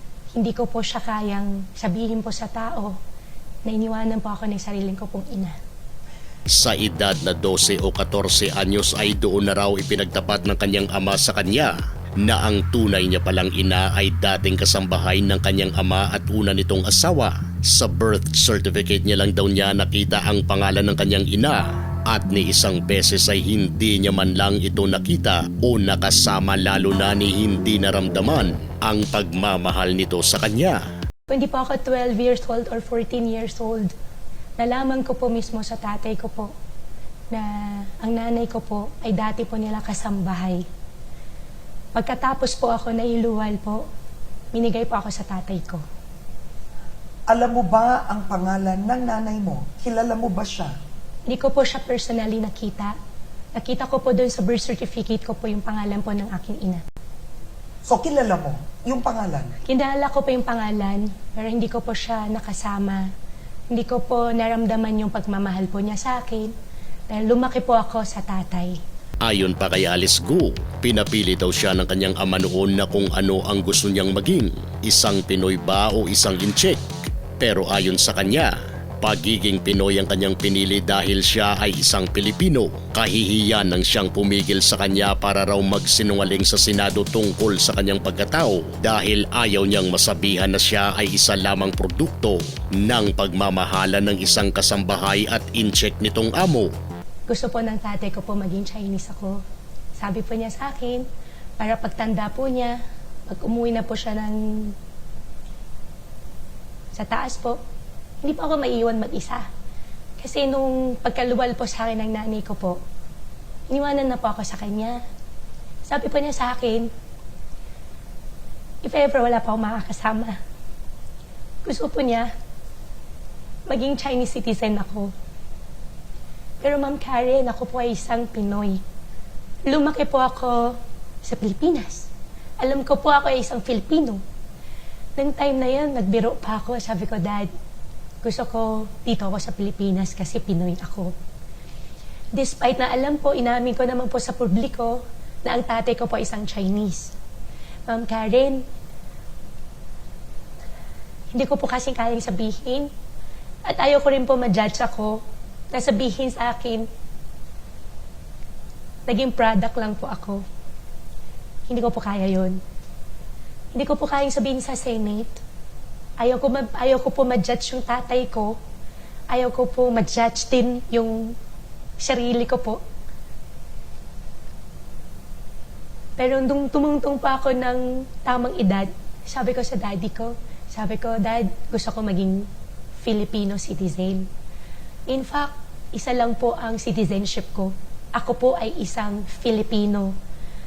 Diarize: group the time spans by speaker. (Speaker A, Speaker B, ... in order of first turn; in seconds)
Speaker A: 0.3-3.0, 3.6-5.5, 31.3-33.9, 34.6-36.5, 37.3-40.6, 41.9-43.9, 44.5-45.8, 51.3-53.0, 53.5-56.8, 59.7-63.1, 63.7-66.5, 67.1-68.8, 97.3-99.4, 100.0-101.1, 101.6-104.7, 106.9-107.6, 108.2-109.5, 110.2-112.8, 113.7-115.0, 115.8-116.9, 118.8-120.4, 121.6-122.3, 123.7-125.1, 126.6-128.8, 129.7-132.1, 132.6-134.2, 135.2-137.5, 138.2-141.1, 142.3-147.1, 147.9-148.6, 151.3-152.9, 153.7-156.9, 159.1-160.4, 161.7-162.6, 163.7-165.4, 166.2-168.6, 169.3-171.3, 172.0-172.8, 176.2-184.3, 185.1-190.2
Speaker B: 6.5-30.8, 69.2-76.8, 77.4-96.7
Speaker C: 47.3-50.7, 57.9-59.6